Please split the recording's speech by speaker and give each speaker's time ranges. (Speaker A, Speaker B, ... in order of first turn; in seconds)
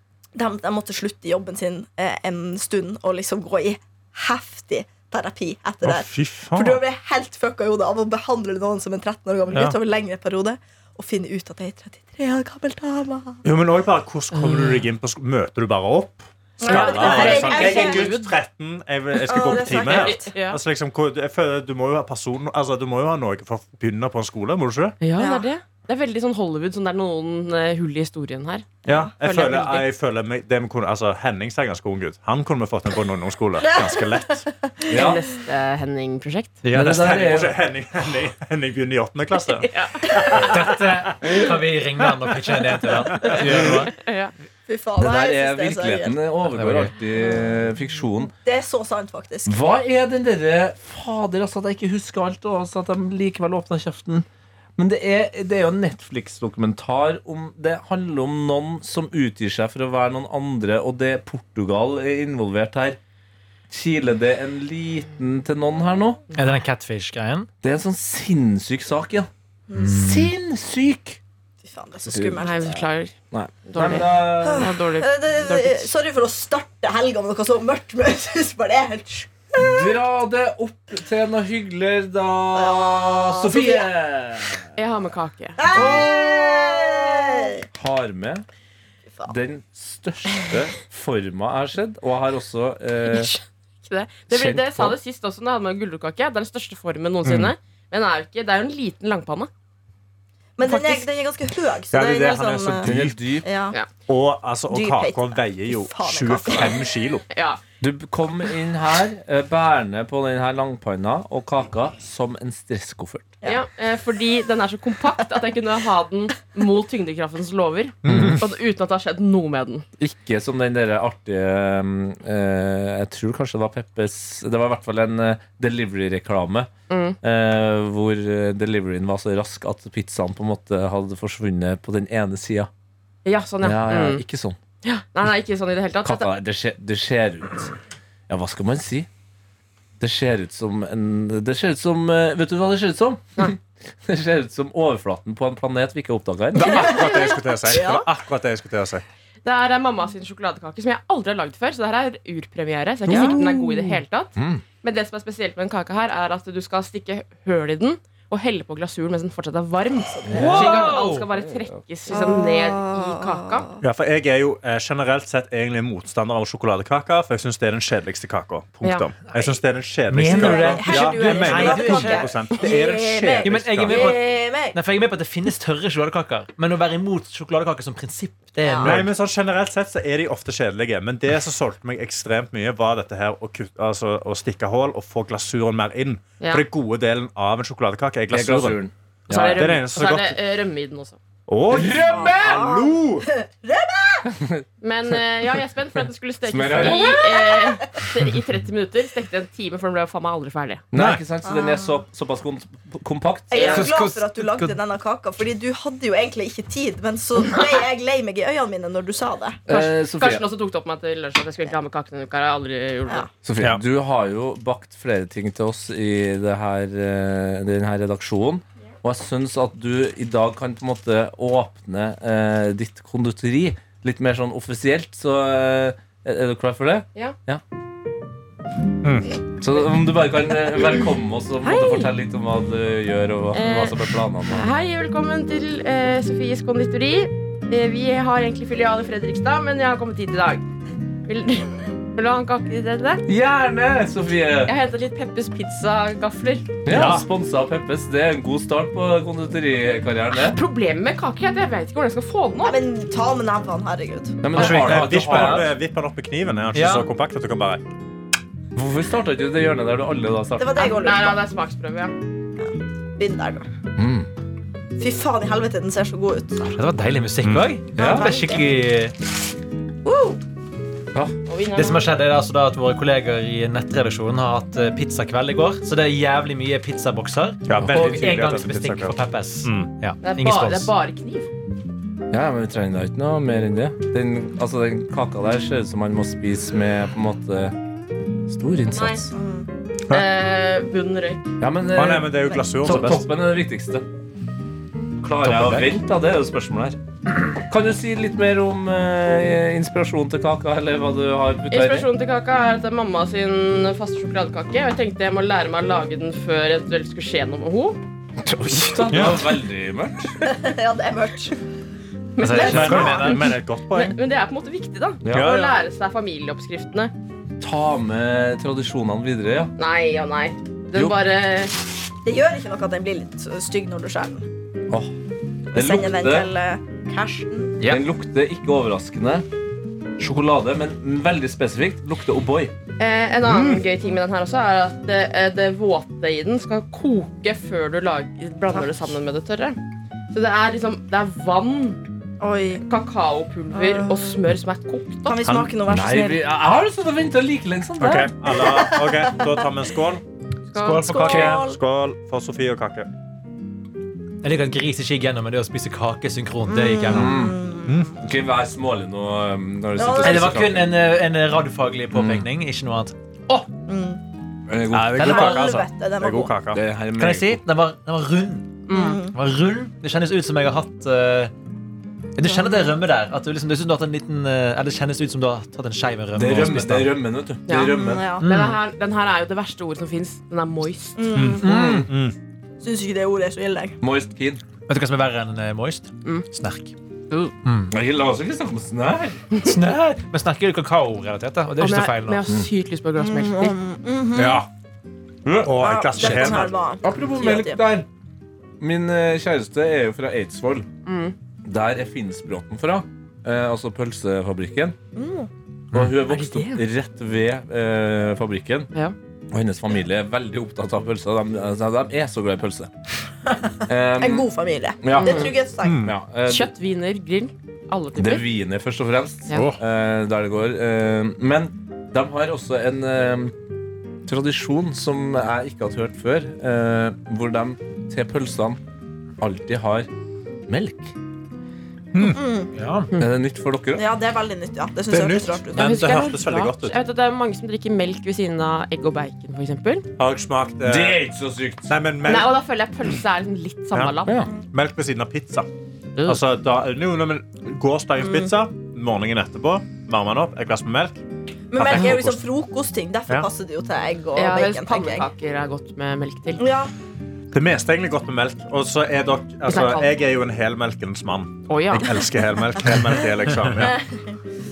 Speaker A: 0.3-13.4, 16.6-18.1, 19.2-20.3, 25.2-25.5, 28.9-29.1, 33.6-35.2, 44.7-46.2, 48.4-49.6, 69.7-70.1, 71.6-72.8, 74.4-80.0, 82.5-83.9, 85.6-87.7, 100.6-103.8, 104.7-106.8, 146.6-148.1, 153.1-153.9, 162.1-163.8, 170.3-174.8, 178.6-179.0, 192.0-194.3, 196.8-198.0, 201.4-202.0, 203.5-209.6, 252.6-254.4, 260.6-261.4, 262.6-263.7, 265.0-266.6, 268.0-268.6, 270.1-270.4, 288.9-289.7, 310.4-311.6, 312.6-313.2, 322.2-324.5, 325.7-327.8, 342.4-342.8, 343.7-344.4, 345.2-346.5, 348.5-349.7, 350.9-351.8, 356.7-358.1, 360.0-360.6, 363.9-364.2, 365.2-366.5, 368.9-369.4, 372.4-372.9, 377.9-378.5, 381.2-381.7, 382.8-384.0, 393.2-394.6, 395.8-397.8, 405.1-405.5, 414.2-416.1, 432.2-432.7, 433.9-436.0, 448.2-448.5, 451.7-455.3, 456.6-456.9, 463.8-464.4
Speaker B: 5.8-6.8, 13.4-25.0, 28.9-34.5, 36.7-41.4, 43.3-43.9, 97.2-97.5, 101.9-103.2, 104.1-107.2, 118.0-118.4, 146.6-149.1, 163.8-174.1, 178.8-190.4, 191.5-193.3, 200.9-201.2, 229.0-229.3, 246.9-247.3, 254.6-257.8, 277.7-279.9, 291.9-293.3, 309.1-309.5, 312.7-314.2, 315.3-315.8, 333.4-333.8, 345.4-345.7, 348.0-350.2, 350.9-353.1, 357.9-358.1, 364.9-366.8, 381.4-382.4, 394.4-394.7, 395.6-396.8, 415.8-416.1, 419.5-419.8, 432.1-432.4, 435.1-437.0, 440.2-441.2, 441.9-442.6, 443.9-445.7, 446.2-451.2, 451.8-452.4, 457.5-464.0
Speaker C: 14.3-14.8, 16.6-18.3, 19.7-20.6, 25.0-29.9, 34.9-36.6, 39.6-40.2, 43.2-44.3, 72.4-73.1, 73.7-75.9, 84.8-85.7, 93.1-99.5, 100.7-101.0, 107.3-107.6, 113.4-119.8, 126.9-127.2, 133.2-134.2, 134.8-136.3, 149.4-163.7, 168.8-169.1, 173.9-174.2, 186.4-186.7, 189.3-191.2, 194.8-200.8, 203.5-203.8, 209.7-213.3, 231.6-232.1, 233.5-240.7, 241.3-243.2, 244.7-246.8, 250.3-252.8, 260.8-262.1, 271.5-272.1, 280.2-281.5, 290.1-291.4, 301.7-308.0, 312.4-317.1, 319.8-321.7, 333.0-339.8, 340.3-342.0, 342.8-345.4, 350.7-351.2, 368.9-369.2, 377.7-381.4, 391.8-393.8, 401.1-401.4, 415.1-415.5, 416.5-418.4, 435.8-440.1, 442.2-444.5, 454.4-456.7, 459.7-460.1, 461.7-462.1
Speaker D: 34.9-35.2, 36.7-37.6, 45.0-48.3, 49.5-54.3, 54.8-63.0, 63.7-66.2, 67.6-69.3, 69.9-71.2, 72.1-72.4, 73.3-74.7, 79.6-84.7, 87.7-88.5, 89.3-93.3, 94.3-95.0, 102.8-103.5, 107.8-113.3, 118.1-118.4, 120.0-126.7, 127.2-132.7, 133.6-134.6, 136.1-137.7, 138.3-139.1, 140.0-146.9, 154.4-154.6, 160.3-161.5, 188.3-189.6, 191.7-192.7, 194.3-194.7, 196.5-197.2, 200.9-203.9, 209.7-210.4, 213.4-227.6, 229.6-234.7, 243.3-244.8, 246.8-250.6, 254.4-255.7, 258.8-260.8, 264.0-264.3, 268.0-268.3, 282.3-287.8, 288.5-289.3, 291.6-294.1, 295.2-297.0, 297.5-302.1, 308.4-310.4, 315.2-315.6, 317.6-319.7, 325.7-326.5, 327.9-329.4, 330.2-332.7, 345.9-348.3, 357.1-357.6, 358.2-361.0, 362.1-362.5, 364.7-365.6, 366.7-367.6, 376.4-378.3, 381.6-382.1, 384.0-384.6, 387.9-389.5, 395.4-398.1, 398.8-400.9, 401.6-405.0, 405.9-408.9, 409.5-412.9, 413.9-414.5, 415.0-416.7, 418.2-423.5, 424.3-428.8, 429.4-430.1, 430.7-431.1, 433.2-434.1, 440.8-441.9
Speaker E: 36.6-37.1, 40.4-43.9, 46.5-46.9, 66.3-67.5, 69.8-70.3, 160.3-161.3, 170.1-172.3, 173.4-179.1, 203.8-204.7, 254.5-255.7, 256.7-257.1, 266.6-269.1, 271.8-280.9, 295.4-295.9, 312.4-313.5, 350.9-351.6, 354.4-357.4, 360.2-363.7, 365.0-365.5, 367.2-371.5, 372.4-377.1, 378.4-378.8, 381.6-382.1, 384.9-386.9, 387.6-387.9, 389.6-392.4, 432.8-433.1